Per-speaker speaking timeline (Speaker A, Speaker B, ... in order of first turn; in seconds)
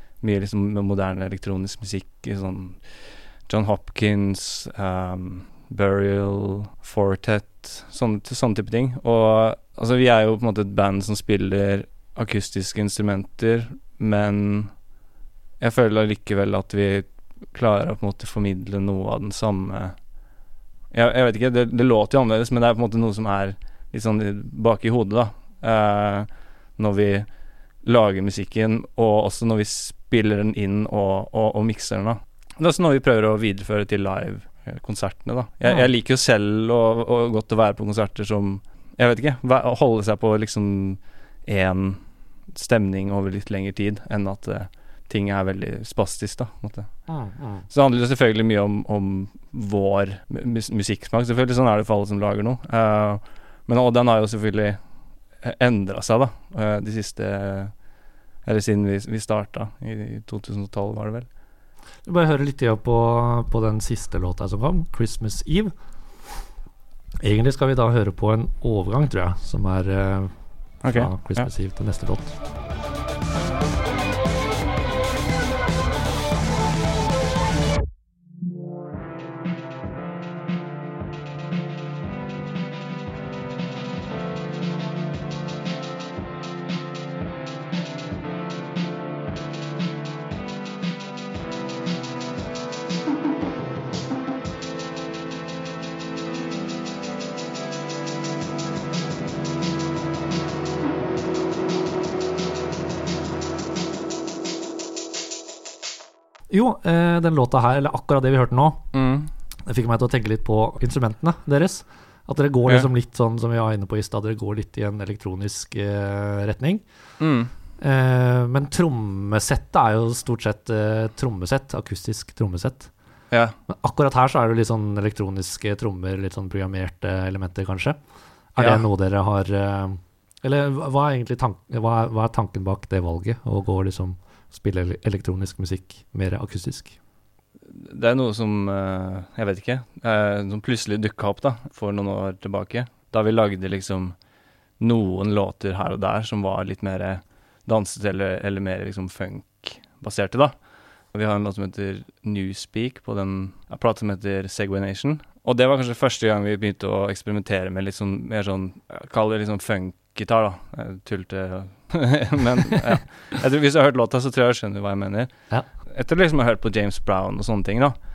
Speaker A: 0.2-14.7, 15.6-20.0, 20.9-27.3, 27.8-46.9, 47.7-54.8, 55.4-57.8, 58.4-61.3, 70.8-71.5, 108.9-109.3, 117.2-117.5, 128.6-128.8, 137.7-144.1, 144.8-150.5, 151.1-165.3, 165.8-167.9
Speaker B: 47.1-47.6, 62.0-65.7, 67.2-72.4, 106.5-108.9, 109.6-116.8, 117.8-122.9, 123.7-128.0, 128.5-136.9